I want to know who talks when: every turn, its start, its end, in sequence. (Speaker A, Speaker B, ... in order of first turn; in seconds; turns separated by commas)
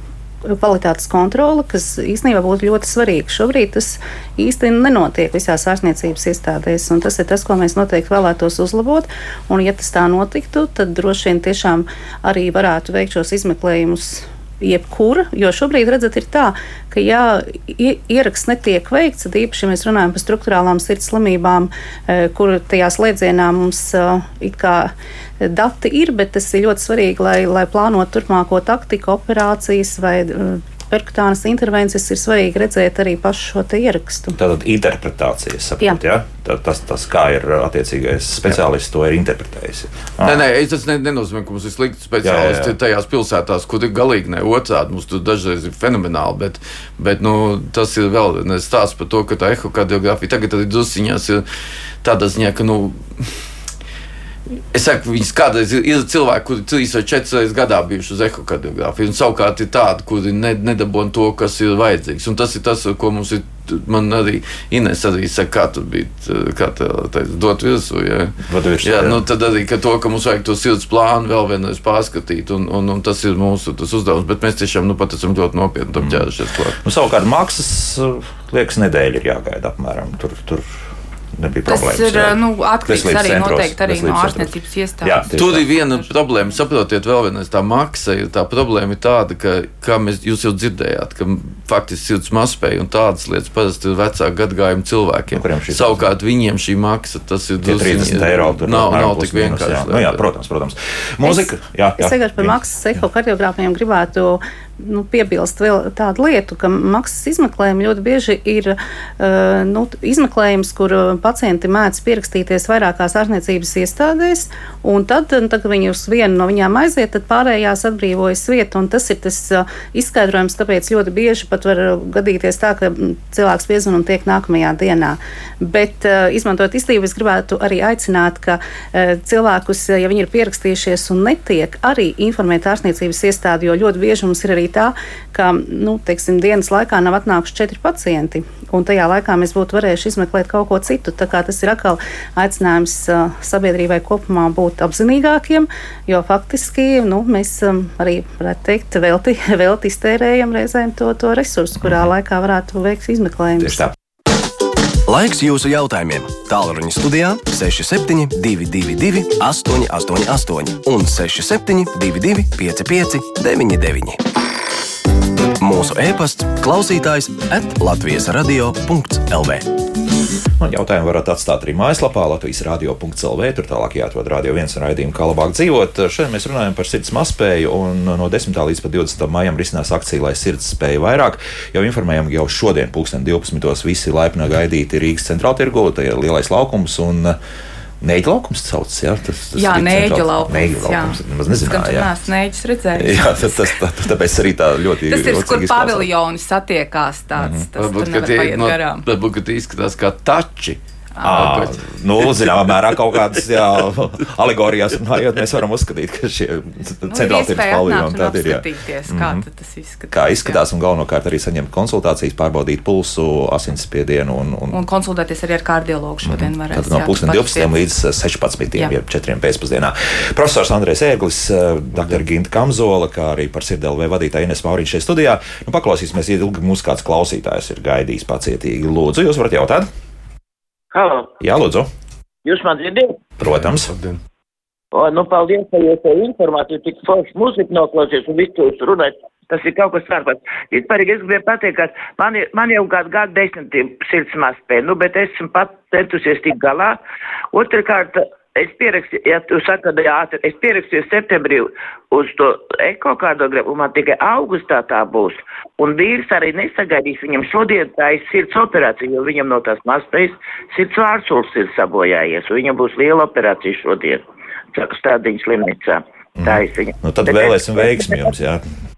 Speaker A: 0.5-34.4, Speaker B: 34.4-40.5, Speaker C: 40.2-51.4, Speaker B: 42.2-42.7, Speaker C: 52.0-53.3, Speaker C: 54.7-76.8, Speaker B: 68.5-69.2, Speaker B: 76.0-76.3, Speaker B: 76.8-80.8, Speaker B: 81.3-84.5, Speaker D: 81.7-85.2, Speaker B: 85.0-85.7, Speaker C: 85.3-100.2, Speaker B: 95.3-96.1, Speaker B: 97.6-102.6, Speaker A: 101.2-153.8, Speaker B: 151.8-152.1, Speaker B: 153.6-153.9, Speaker E: 155.1-164.2, Speaker E: 165.6-169.6, Speaker B: 170.6-187.4, Speaker B: 188.0-192.1, Speaker D: 189.6-193.8, Speaker B: 192.9-196.1, Speaker D: 195.1-199.0, Speaker B: 197.3-197.7, Speaker C: 197.8-202.5, Speaker B: 201.2-209.4, Speaker D: 207.1-210.6, Speaker B: 210.1-214.8, Speaker D: 214.7-217.8, Speaker B: 216.2-229.9, Speaker F: 230.9-231.3, Speaker B: 231.4-231.9, Speaker F: 232.4-233.2, Speaker B: 233.4-233.9, Speaker C: 233.9-234.2, Speaker F: 234.9-247.0, Speaker F: 247.5-268.3, Speaker B: 266.4-268.6